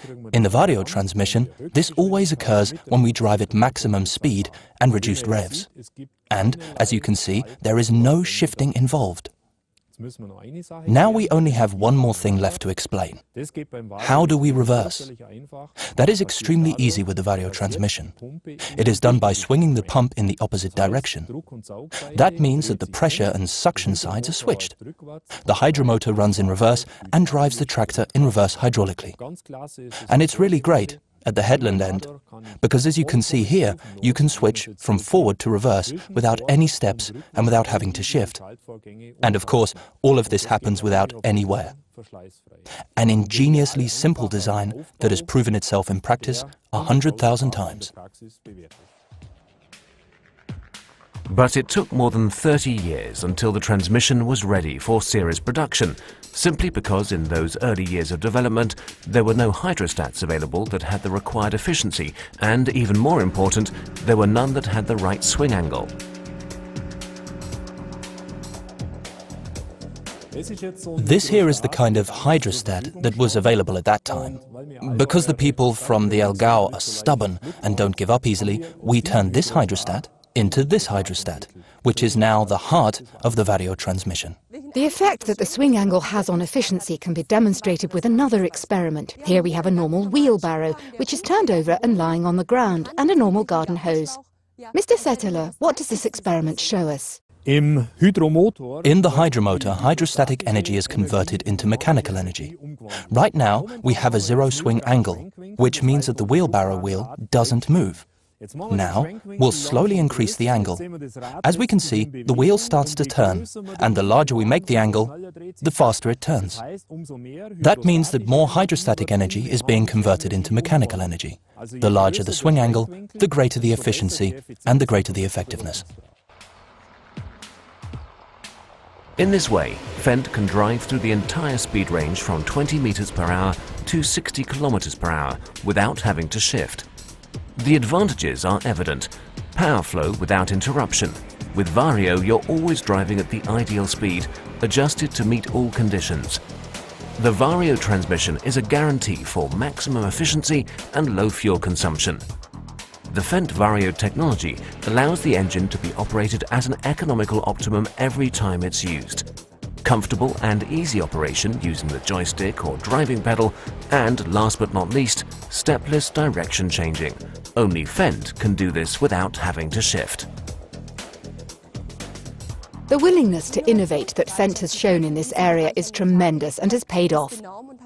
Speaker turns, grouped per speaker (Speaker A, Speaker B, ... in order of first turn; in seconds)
Speaker A: 0.3-5.7, 6.3-9.3, 10.9-13.2, 14.0-15.1, 15.9-18.1, 18.7-21.3, 22.1-24.8, 25.4-29.2, 30.1-32.1, 32.6-38.4, 39.2-41.8, 43.0-47.9, 71.0-84.4, 98.8-102.5, 103.1-108.1, 108.7-110.8, 111.4-116.6, 117.6-125.9
Speaker B: 51.3-65.9, 129.2-136.9, 137.6-146.4, 147.2-152.2, 153.1-159.3, 159.8-170.3
Speaker C: 84.7-94.2, 94.7-97.2, 172.9-177.4